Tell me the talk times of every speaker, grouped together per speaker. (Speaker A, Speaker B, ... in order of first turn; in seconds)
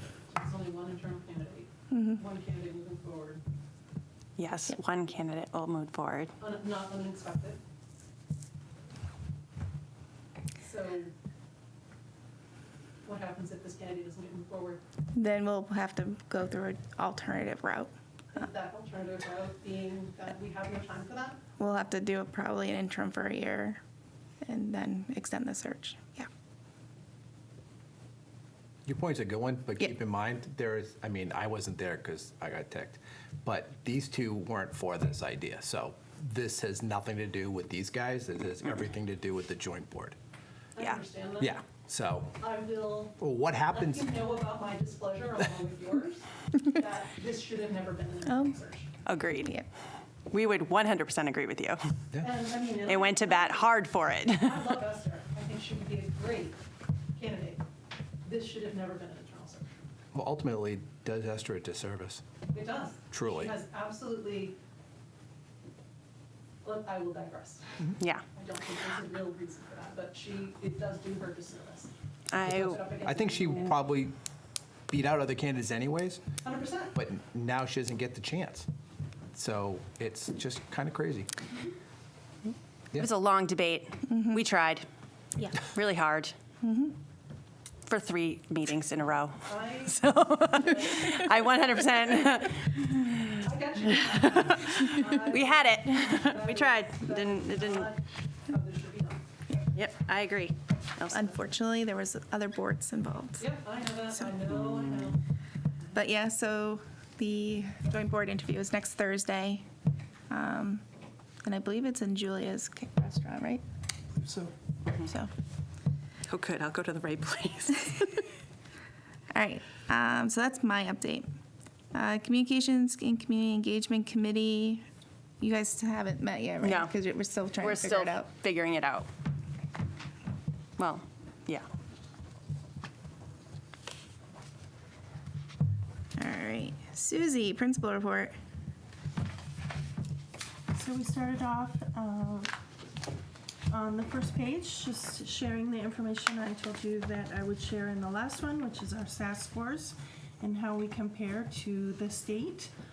Speaker A: 0.3-3.4, 6.4-7.6, 10.6-11.1, 13.0-14.8, 18.3-21.4, 40.8-41.6, 42.4-43.2, 43.7-48.9, 52.2-53.6, 54.4-56.6, 57.1-57.6, 58.2-59.7, 62.5-64.5, 66.6-67.6, 68.3-73.8, 76.4-76.9, 89.4-91.3, 93.4-99.2, 103.4-105.2
Speaker B: 4.4-6.3, 49.0-49.5, 50.3-51.8, 52.9-54.6, 68.0-68.2, 72.3-72.8, 83.0-84.8, 85.4-86.3, 87.8-93.3, 94.5-97.9, 99.7-101.3, 116.3-118.3, 126.6-126.9, 127.6-129.1, 130.8-131.7
Speaker C: 15.2-17.9, 21.6-23.8, 24.4-26.3, 48.3-48.5, 49.4-49.7, 86.6-86.9, 101.1-103.4, 105.9-109.6, 110.3-110.8, 111.4-113.6, 115.0-115.3, 119.3-121.3, 121.9-124.8, 125.4-128.3, 136.2-138.3
Speaker D: 28.9-40.2, 41.4-42.4, 43.2-44.1, 60.1-62.2, 63.1-63.5, 73.0-74.2, 74.9-76.2, 76.9-78.7, 79.3-81.3, 114.2-114.5
Speaker E: 140.7-142.5, 143.7-152.7